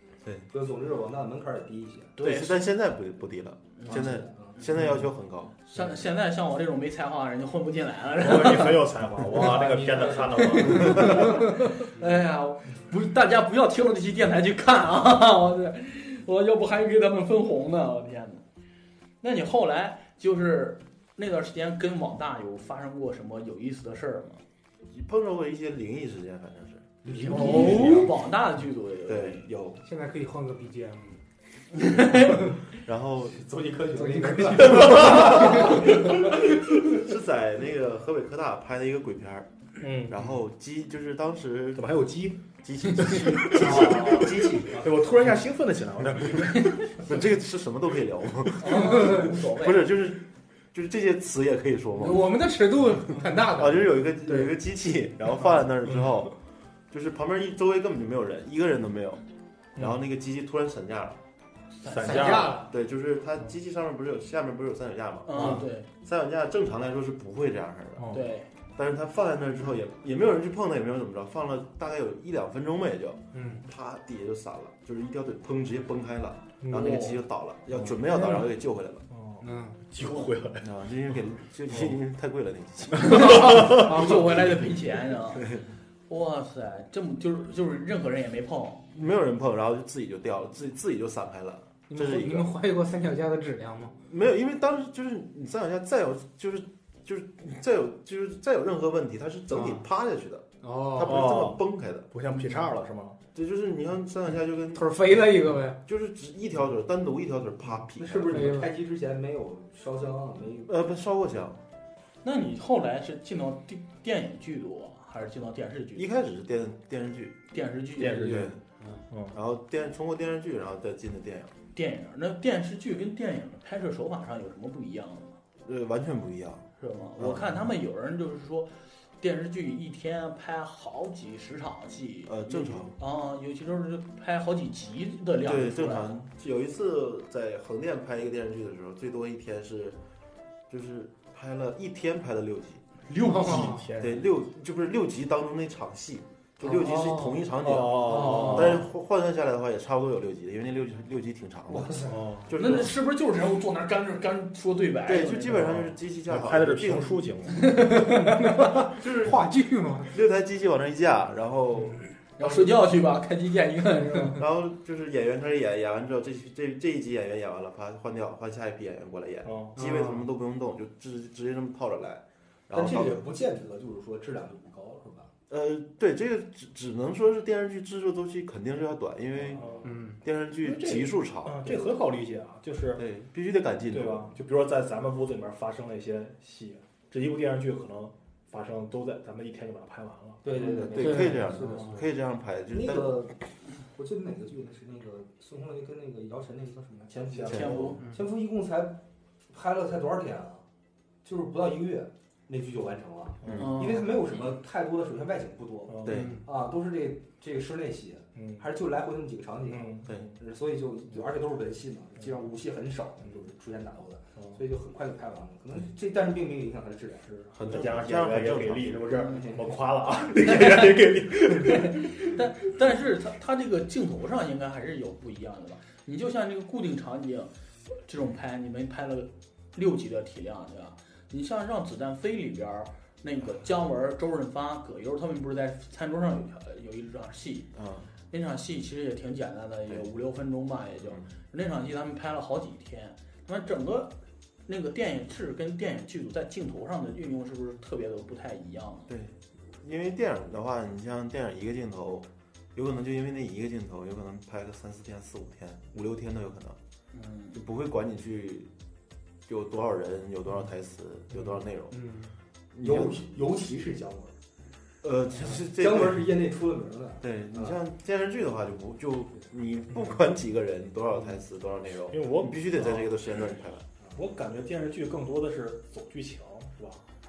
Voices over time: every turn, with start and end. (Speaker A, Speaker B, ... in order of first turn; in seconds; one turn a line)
Speaker A: 0.2-0.5
Speaker B: 0.5-2.2
Speaker C: 2.2-2.6
Speaker A: 2.2-5.6
Speaker B: 3.9-4.6
Speaker C: 5.7-8.8
Speaker D: 8.2-11.6
Speaker B: 9.3-11.2
Speaker C: 10.4-18.4
Speaker C: 19.2-24.4
Speaker A: 24.9-26.9
Speaker B: 27.1-28.1
Speaker C: 27.2-29.5
Speaker E: 27.2-28.1
Speaker A: 29.1-29.8
Speaker E: 29.8-31.2
Speaker C: 31.8-32.4
Speaker A: 32.0-33.4
Speaker B: 33.4-36.3
Speaker E: 33.9-35.8
Speaker A: 34.7-39.5
Speaker D: 39.8-40.3
Speaker A: 40.1-41.9
Speaker D: 41.8-42.4
Speaker A: 42.6-44.8
Speaker D: 43.0-46.8
Speaker B: 43.5-45.0
Speaker A: 46.9-52.3
Speaker C: 48.6-49.9
Speaker E: 52.0-54.5
Speaker A: 53.4-56.4
Speaker A: 56.9-59.2
Speaker A: 59.8-61.2
Speaker C: 61.8-62.4
Speaker D: 61.9-62.6
Speaker E: 62.0-62.7
Speaker A: 62.1-79.0
Speaker C: 65.3-65.9
Speaker D: 68.0-68.2
Speaker C: 68.1-68.5
Speaker E: 73.3-73.6
Speaker D: 76.6-77.0
Speaker C: 76.7-77.2
Speaker D: 77.8-78.5
Speaker D: 79.1-80.7
Speaker E: 79.4-79.9
Speaker A: 80.6-84.6
Speaker C: 83.0-85.6
Speaker A: 85.4-85.7
Speaker C: 86.1-88.8
Speaker A: 88.9-92.5
Speaker E: 91.9-94.0
Speaker A: 94.1-102.1
Speaker E: 99.5-99.8
Speaker E: 100.6-101.3
Speaker D: 101.0-103.2
Speaker A: 103.3-108.5
Speaker E: 104.8-105.8
Speaker B: 108.0-110.7
Speaker E: 108.3-108.7
Speaker A: 110.7-111.6
Speaker C: 112.2-116.0
Speaker A: 116.0-117.4
Speaker C: 117.5-118.4
Speaker D: 118.0-118.5
Speaker A: 118.2-118.6
Speaker D: 119.1-119.4
Speaker A: 119.3-121.5
Speaker C: 121.7-125.4
Speaker A: 125.6-127.8
Speaker C: 126.8-136.2
Speaker A: 132.3-133.0
Speaker A: 135.4-140.0
Speaker A: 140.7-142.9
Speaker D: 143.1-144.3
Speaker E: 143.1-143.9
Speaker A: 144.0-152.9
Speaker E: 146.6-147.4
Speaker D: 147.6-148.8
Speaker E: 148.1-148.8
Speaker B: 151.7-152.2
Speaker D: 152.1-152.6
Speaker C: 152.6-155.9
Speaker A: 155.1-157.3
Speaker D: 156.3-158.8
Speaker E: 158.0-160.1
Speaker A: 158.9-159.4
Speaker A: 160.1-162.8
Speaker C: 162.4-164.4
Speaker A: 164.3-173.2
Speaker D: 169.4-169.8
Speaker E: 169.8-170.3
Speaker B: 172.7-175.3
Speaker A: 175.5-179.6
Speaker B: 179.4-180.0
Speaker D: 179.5-180.0
Speaker E: 179.8-180.2
Speaker A: 180.2-181.8
Speaker D: 180.8-183.1
Speaker A: 182.9-184.3
Speaker D: 183.9-190.5
Speaker B: 190.4-192.1
Speaker A: 190.7-193.2
Speaker E: 191.0-191.4
Speaker B: 192.7-200.6
Speaker A: 197.4-198.0
Speaker C: 197.4-198.0
Speaker B: 201.2-217.5
Speaker D: 203.4-203.7
Speaker A: 203.4-203.8
Speaker C: 203.6-204.5
Speaker D: 205.9-206.3
Speaker A: 206.0-206.4
Speaker E: 206.1-206.4
Speaker D: 208.4-208.6
Speaker D: 209.7-210.2
Speaker A: 210.1-210.3
Speaker A: 217.6-219.3
Speaker D: 217.6-222.3
Speaker B: 219.3-219.8
Speaker C: 221.6-237.7
Speaker A: 237.7-238.1
Speaker C: 238.3-244.1
Speaker A: 241.0-241.3
Speaker C: 244.7-249.1
Speaker A: 249.1-256.8
Speaker C: 257.1-257.6
Speaker A: 257.5-258.7
Speaker A: 259.5-262.1
Speaker E: 261.9-262.3
Speaker A: 262.7-263.2
Speaker B: 262.8-264.4
Speaker A: 265.0-266.3
Speaker B: 265.6-267.8
Speaker A: 267.2-273.8
Speaker D: 272.1-273.1
Speaker D: 274.1-277.1